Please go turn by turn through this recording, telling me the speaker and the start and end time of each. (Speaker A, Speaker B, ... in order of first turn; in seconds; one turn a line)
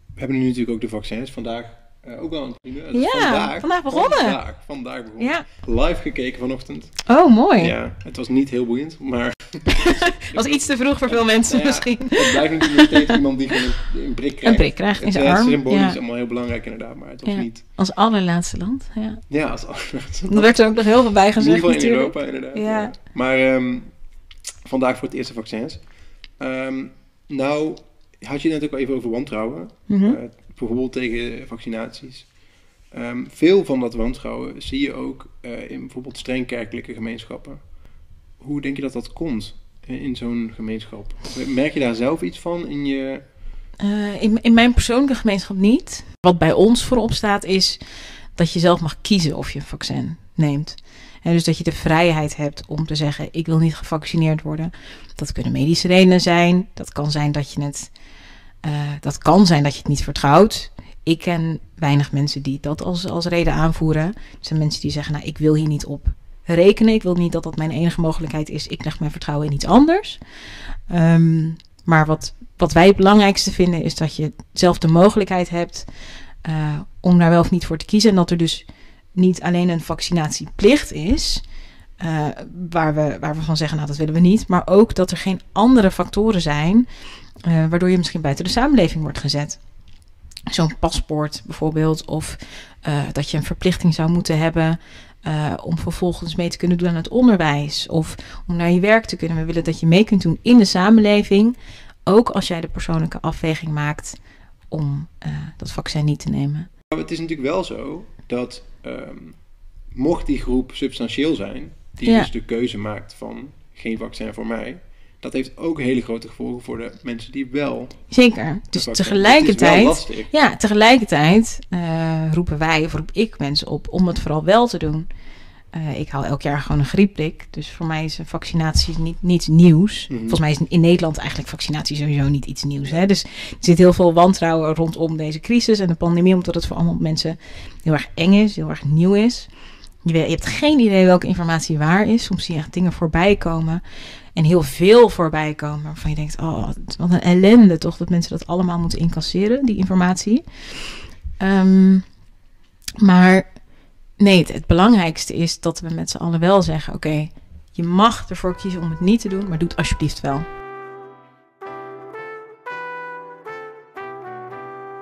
Speaker A: 0.2-17.6
Speaker B: 2.9-4.4
Speaker B: 5.2-5.5
Speaker B: 7.1-7.8
Speaker B: 9.8-13.2
Speaker B: 14.4-16.0
Speaker B: 17.2-19.2
Speaker A: 19.3-20.7
Speaker B: 20.3-22.9
Speaker A: 21.4-43.2
Speaker B: 29.9-30.2
Speaker B: 43.8-47.8
Speaker B: 48.4-57.9
Speaker B: 58.6-70.2
Speaker B: 70.9-81.4
Speaker B: 82.0-86.9
Speaker B: 87.4-89.6
Speaker B: 90.5-101.5
Speaker B: 102.1-104.2
Speaker B: 104.7-106.7
Speaker A: 106.9-118.1
Speaker B: 112.0-112.3
Speaker B: 118.1-125.1
Speaker A: 118.8-120.3
Speaker B: 125.7-139.5
Speaker A: 130.1-130.4
Speaker B: 140.0-143.8
Speaker B: 144.3-150.8
Speaker B: 151.4-152.1
Speaker B: 153.0-153.5
Speaker B: 154.2-160.5